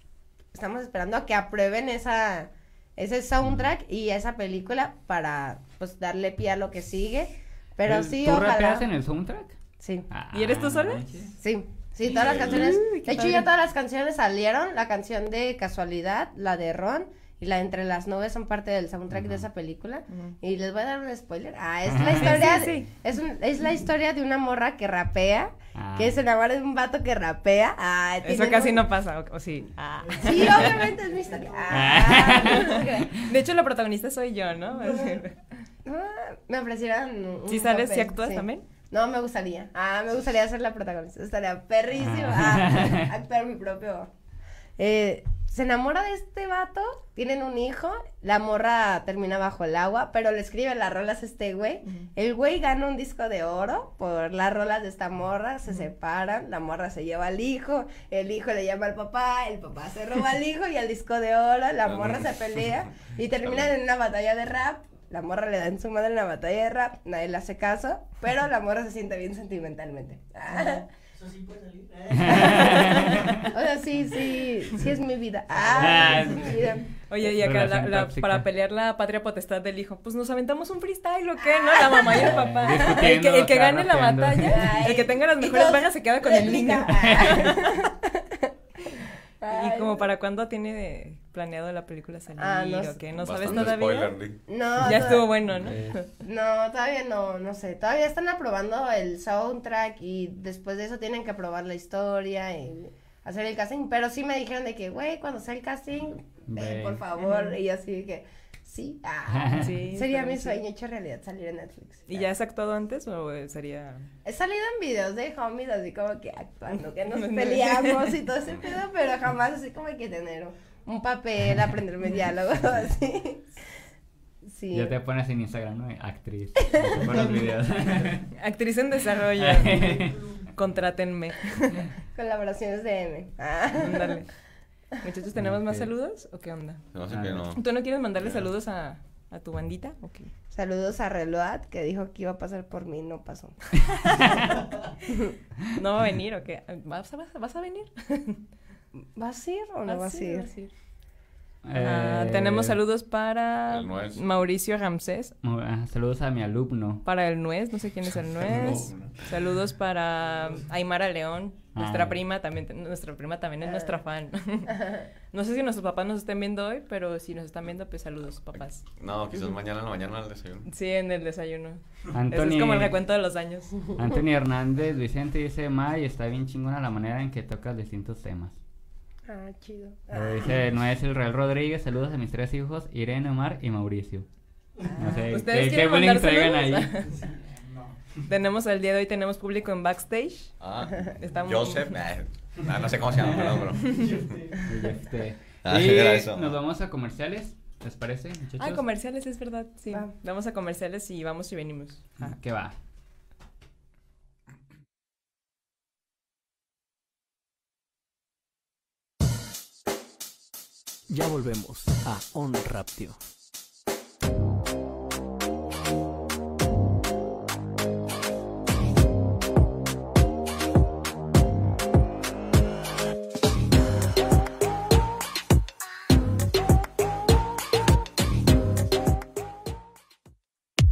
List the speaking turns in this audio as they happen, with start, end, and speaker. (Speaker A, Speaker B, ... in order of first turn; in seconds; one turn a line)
Speaker A: 0.5-8.9
Speaker B: 7.8-9.6
Speaker A: 9.8-10.1
Speaker B: 10.1-11.3
Speaker C: 10.3-11.0
Speaker A: 11.4-28.8
Speaker D: 12.1-12.7
Speaker C: 12.2-13.5
Speaker B: 19.1-19.4
Speaker C: 20.1-20.3
Speaker B: 21.9-22.4
Speaker C: 22.2-22.9
Speaker B: 25.8-26.2
Speaker C: 28.2-30.8
Speaker A: 30.2-33.1
Speaker B: 31.7-33.2
Speaker C: 33.2-35.5
Speaker A: 34.9-35.2
Speaker A: 35.8-44.1
Speaker C: 37.5-38.6
Speaker B: 42.0-43.1
Speaker A: 44.8-70.9
Speaker D: 61.8-62.9
Speaker B: 72.1-73.5
Speaker A: 73.5-76.8
Speaker B: 75.8-76.6
Speaker C: 77.1-87.8
Speaker B: 77.2-78.4
Speaker A: 81.6-82.0
Speaker B: 82.1-84.6
Speaker A: 84.4-90.1
Speaker B: 87.0-87.4
Speaker C: 89.5-94.2
Speaker A: 92.4-93.7
Speaker D: 93.1-94.4
Speaker A: 94.5-95.4
Speaker C: 94.8-96.1
Speaker B: 95.5-96.0
Speaker A: 96.2-112.3
Speaker B: 106.5-107.0
Speaker C: 107.2-107.5
Speaker B: 109.3-109.7
Speaker C: 109.5-110.6
Speaker C: 112.1-114.1
Speaker A: 114.2-123.6
Speaker C: 117.1-118.1
Speaker A: 124.5-124.9
Speaker B: 124.7-128.3
Speaker C: 128.3-131.8
Speaker B: 129.4-130.4
Speaker A: 132.1-134.2
Speaker C: 133.8-134.3
Speaker C: 135.0-136.8
Speaker B: 135.3-135.9
Speaker D: 136.9-137.6
Speaker B: 137.1-137.4
Speaker C: 137.5-140.3
Speaker D: 138.2-138.5
Speaker A: 140.5-143.8
Speaker C: 145.7-148.4
Speaker A: 149.2-150.5
Speaker C: 149.9-150.7
Speaker B: 151.7-152.8
Speaker C: 151.8-155.3
Speaker D: 153.7-154.2
Speaker B: 155.4-157.0
Speaker C: 157.0-164.8
Speaker D: 158.2-159.3
Speaker B: 161.7-162.2
Speaker A: 163.6-163.9
Speaker A: 164.7-165.1
Speaker C: 165.3-168.8
Speaker D: 168.5-170.7
Speaker C: 170.7-173.8
Speaker B: 172.1-172.9
Speaker B: 173.9-178.6
Speaker A: 179.2-180.5
Speaker B: 180.1-184.2
Speaker A: 184.9-185.2
Speaker B: 184.9-186.9
Speaker C: 185.3-187.2
Speaker C: 188.2-191.9
Speaker D: 190.6-194.6
Speaker B: 194.6-198.8
Speaker D: 195.6-196.6
Speaker C: 198.6-202.3
Speaker B: 202.2-202.8
Speaker E: 211.1-213.2